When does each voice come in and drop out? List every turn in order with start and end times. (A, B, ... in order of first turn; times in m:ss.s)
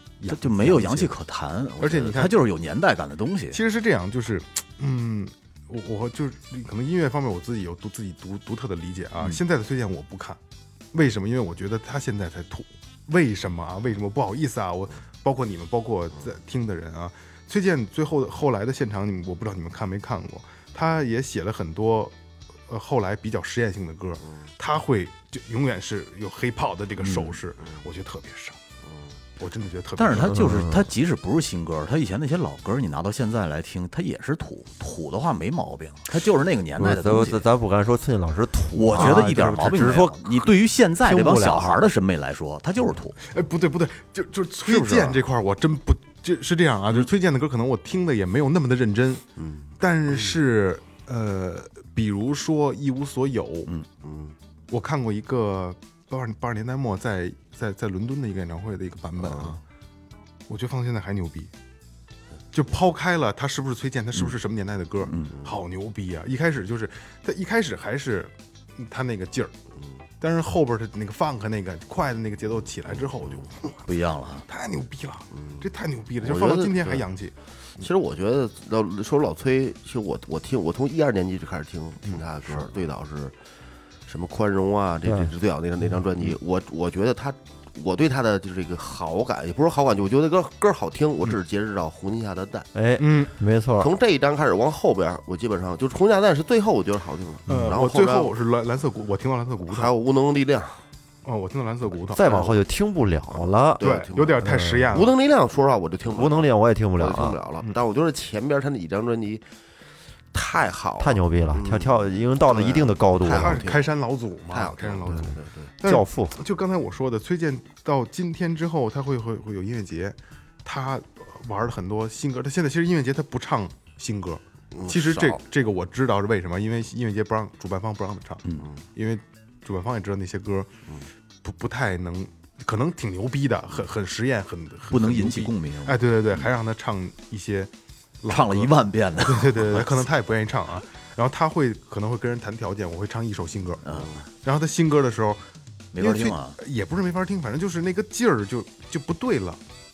0:00.2-0:01.1 A
0:00.3-0:03.6 B
0:01.8-0:02.4 A
0:03.5-0:10.4 A
0:10.9-0:22.1 A
0:22.7-0:28.6 A
0:27.0-0:27.4 B
0:28.8-0:29.1 C
0:29.4-0:30.4 A
0:30.0-0:37.4 B
0:30.3-0:30.9 D
0:36.8-0:41.8 D
0:38.7-0:43.2 B
0:43.2-0:49.2 A
0:49.4-0:50.3 C
0:49.8-0:53.7 A
0:54.0-0:54.4 C
0:54.7-0:59.6 A
0:59.2-0:59.6 C
1:00.5-1:01.5 A
1:02.5-1:09.5 A
1:05.0-1:05.3 B
1:10.2-1:13.8 A
1:13.8-1:14.4 B
1:14.5-1:17.3 A
1:15.3-1:15.7 C
1:16.2-1:17.1 C
1:17.8-1:23.3 C
1:24.1-1:32.7 C
1:25.0-1:25.3 D
1:32.7-1:33.9 D
1:33.0-1:33.3 A
1:33.8-1:38.3 C
1:37.5-1:39.9 A
1:39.6-1:40.8 C
1:41.2-1:42.6 A
1:42.1-1:43.9 D
1:43.3-1:44.4 C
1:43.8-1:45.1 A
1:44.4-1:44.9 D
1:44.9-1:49.4 C
1:46.1-1:47.4 D
1:50.3-1:54.0 C
1:51.0-1:53.6 D
1:53.4-1:55.3 A
1:54.5-1:55.7 C
1:55.8-2:08.4 A
1:55.8-1:56.4 D
2:04.7-2:05.4 C
2:08.9-2:10.7 A
2:11.4-2:17.7 A
2:14.9-2:16.5 B
2:18.2-2:23.8 A
2:18.3-2:20.0 B
2:23.8-2:24.2 B
2:23.9-2:24.2 C
2:24.4-2:25.4 A
2:25.9-2:26.6 B
2:26.0-2:29.6 A